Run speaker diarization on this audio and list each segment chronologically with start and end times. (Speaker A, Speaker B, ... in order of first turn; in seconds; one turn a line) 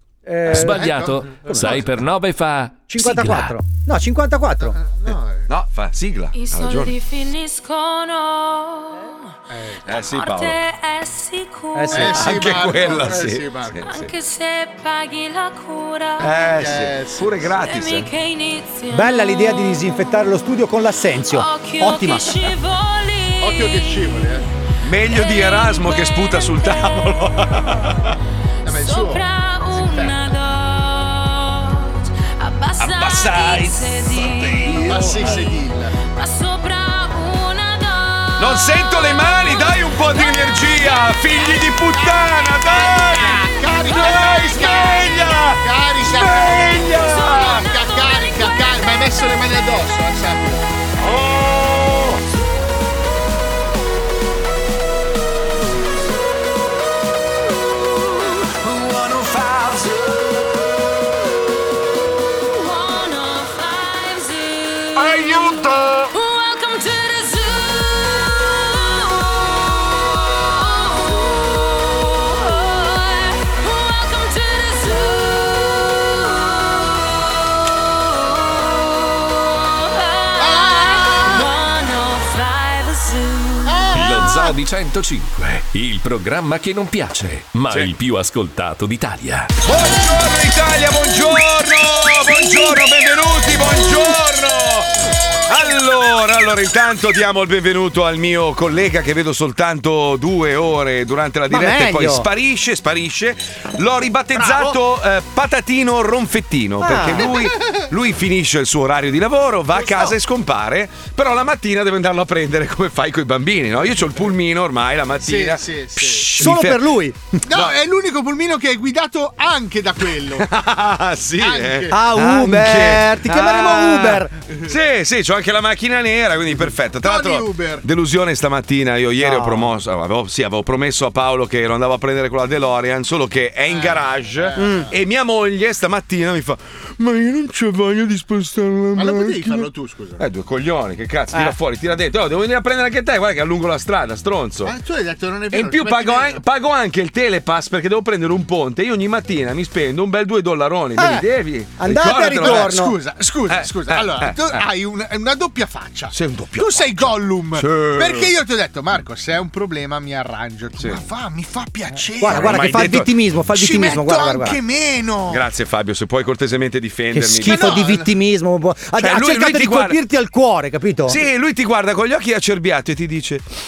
Speaker A: 0.2-1.8
Speaker B: 0.5-3.6
Speaker C: 0.6-1.8
Speaker A: 2.9-4.8
Speaker C: 4.7-5.5
Speaker D: 5.5-6.9
Speaker E: 6.3-9.2
Speaker C: 9.5-9.8
Speaker D: 9.8-10.6
Speaker E: 10.0-12.1
Speaker A: 11.7-12.2
Speaker C: 11.9-13.8
Speaker D: 12.1-14.1
Speaker E: 13.8-16.4
Speaker D: 16.2-18.1
Speaker C: 16.6-17.4
Speaker E: 17.6-19.7
Speaker A: 18.9-22.4
Speaker E: 21.3-24.1
Speaker C: 23.4-24.4
Speaker D: 24.8-28.1
Speaker E: 25.1-27.0
Speaker C: 28.6-30.2
Speaker E: 28.7-42.6
Speaker D: 32.8-35.2
Speaker C: 34.8-35.9
Speaker D: 38.4-43.4
Speaker C: 42.7-50.6
Speaker E: 43.3-45.1
Speaker D: 43.9-47.6
Speaker E: 46.7-48.8
Speaker D: 51.1-52.2
Speaker D: 59.2-59.7
Speaker E: 62.4-77.0
Speaker E: 78.0-83.8
Speaker C: 80.4-81.5
Speaker C: 83.7-84.5
Speaker B: 83.9-89.6
Speaker D: 89.6-116.9
Speaker A: 101.5-102.2
Speaker A: 106.8-107.3
Speaker C: 107.2-107.8
Speaker C: 115.2-116.3
Speaker A: 116.3-117.2
Speaker C: 117.5-120.5
Speaker D: 120.4-144.7
Speaker C: 121.4-121.9
Speaker A: 121.9-124.3
Speaker C: 127.0-127.8
Speaker A: 129.2-129.7
Speaker C: 133.7-134.9
Speaker A: 134.6-134.9
Speaker C: 138.9-140.2
Speaker C: 144.6-146.4
Speaker D: 145.5-152.9
Speaker A: 150.9-152.9
Speaker C: 152.2-163.0
Speaker D: 153.5-154.6
Speaker D: 156.1-158.3
Speaker A: 162.2-164.6
Speaker D: 162.2-163.1
Speaker C: 163.5-165.4
Speaker D: 165.3-167.9
Speaker A: 167.1-171.2
Speaker C: 167.4-168.1
Speaker D: 169.0-170.0
Speaker D: 171.1-173.4